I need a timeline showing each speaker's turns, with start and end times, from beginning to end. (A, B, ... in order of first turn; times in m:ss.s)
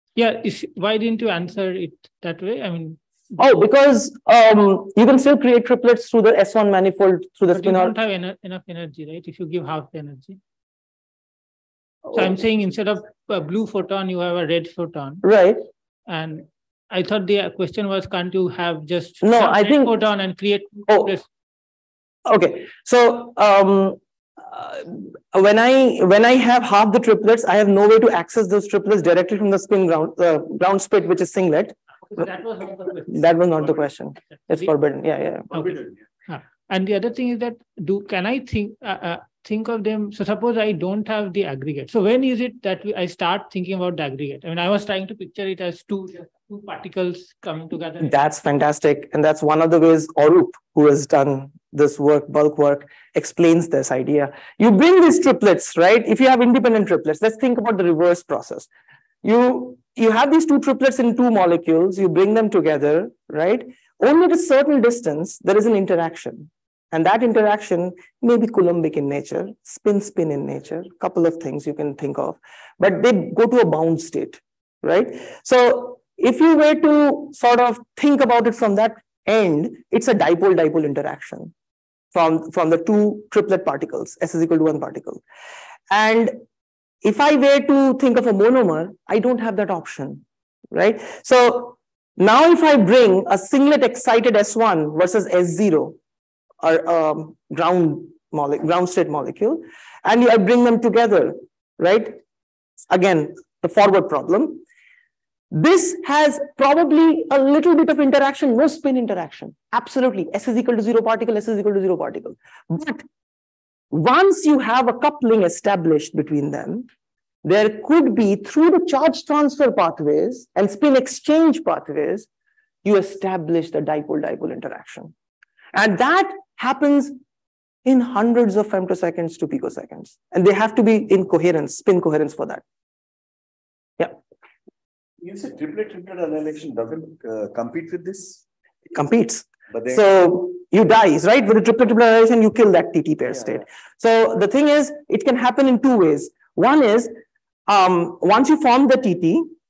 0:00.2-0:03.0 A
0:03.4-0:07.9 B
0:07.6-0:10.4 A
0:12.1-0:15.2 A
0:15.2-0:15.6 B
0:16.1-0:21.2 A
0:19.2-0:19.9 B
0:22.3-0:32.3 B
0:32.1-0:33.5 A
0:33.1-0:35.6 B
0:35.5-0:36.0 C
0:36.3-0:48.2 A
0:48.0-0:58.7 B
0:59.2-1:21.5 B
1:22.1-1:25.2 B
1:25.9-1:26.4 B
1:27.0-1:36.0 B
1:36.6-1:42.2 B
1:42.9-1:44.6 B
1:45.5-1:53.0 B
1:53.9-1:56.9 B
1:57.4-2:02.3 B
2:02.8-2:05.1 B
2:05.8-2:07.2 B
2:07.8-2:12.6 B
2:15.2-2:18.4 C
2:19.0-2:27.1 B
2:19.7-2:20.0 C
2:27.7-2:29.5 B